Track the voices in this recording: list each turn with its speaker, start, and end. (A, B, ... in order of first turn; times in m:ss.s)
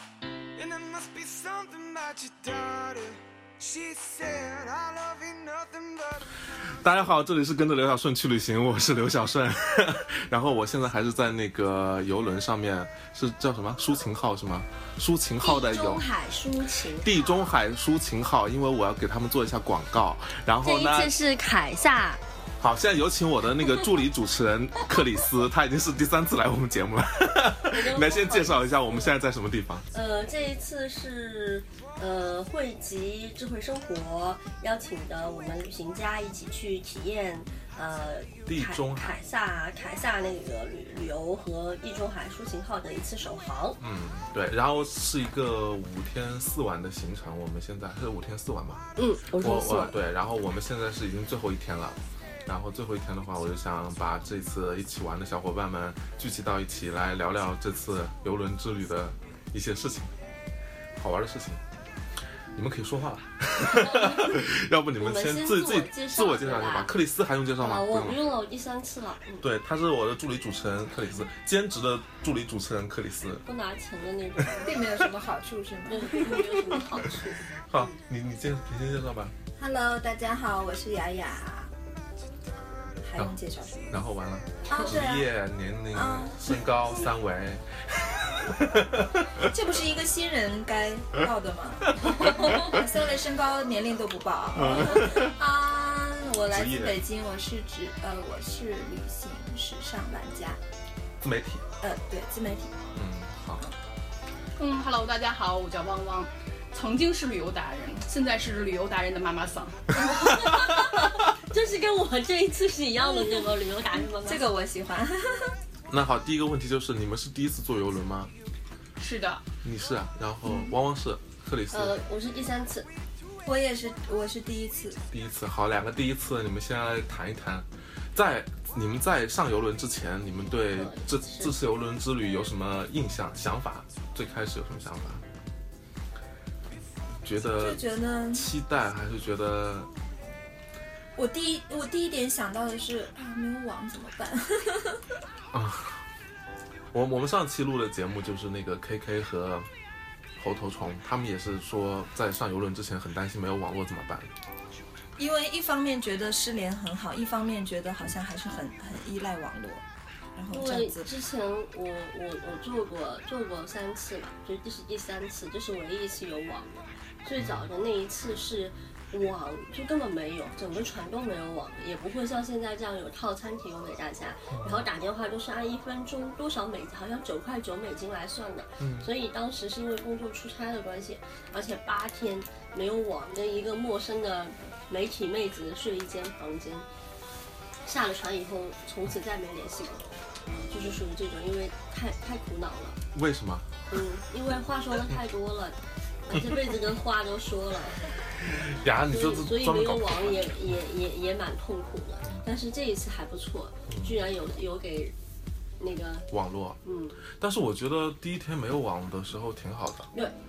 0:00.6-0:06.3 A
0:06.8-0:16.1 B
0:15.4-0:17.2 C
0:17.0-0:21.2 B
0:20.6-0:22.2 D
0:22.6-0:29.8 B
0:27.7-0:29.1 D
0:29.9-0:43.8 D
0:38.5-0:39.2 B
0:43.8-0:48.9 B
0:49.0-0:50.0 D
0:49.4-1:00.1 B
1:01.0-1:01.6 B
1:02.5-1:08.2 B
1:03.6-1:04.4 D
1:05.0-1:06.9 D
1:07.6-1:09.5 D
1:09.4-1:13.4 B
1:13.5-1:14.8 D
1:14.6-1:16.4 C
1:15.9-1:17.9 D
1:17.7-1:19.3 B
1:19.6-1:21.7 C
1:23.0-1:24.0 C
1:23.9-1:29.5 B
1:24.7-1:25.3 C
1:25.9-1:26.4 C
1:29.4-1:40.6 C
1:31.9-1:32.8 B
1:34.5-1:35.4 B
1:36.5-1:37.0 B
1:41.2-1:41.6 B
1:41.8-1:42.8 C
1:42.9-1:43.6 B
1:44.6-1:50.1 E
1:50.2-1:54.4 D
1:54.2-1:55.5 C
1:55.9-1:58.3 B
1:59.0-1:59.4 E
1:59.6-2:02.0 B
2:00.5-2:00.7 C
2:01.7-2:02.9 D
2:03.5-2:05.0 C
2:05.1-2:15.2 B
2:10.8-2:11.5 D
2:17.2-2:19.9 B
2:17.5-2:18.5 C
2:21.2-2:25.0 C
2:25.5-2:26.0 B
2:26.9-2:29.7 B
2:30.4-2:34.3 B
2:35.2-2:39.8 C
2:40.4-2:41.1 C
2:40.5-3:06.9 D
2:47.4-2:47.7 B
2:54.5-2:54.9 B
2:58.8-2:59.1 B
3:07.9-3:10.1 D
3:10.7-3:13.0 D
3:13.1-3:13.7 B
3:13.9-3:15.8 D
3:16.3-3:18.0 D
3:18.4-3:20.8 B
3:19.1-3:25.2 D
3:23.9-3:24.2 B
3:25.8-3:26.3 D
3:26.3-3:26.8 B
3:26.8-3:27.2 D
3:27.3-3:30.1 B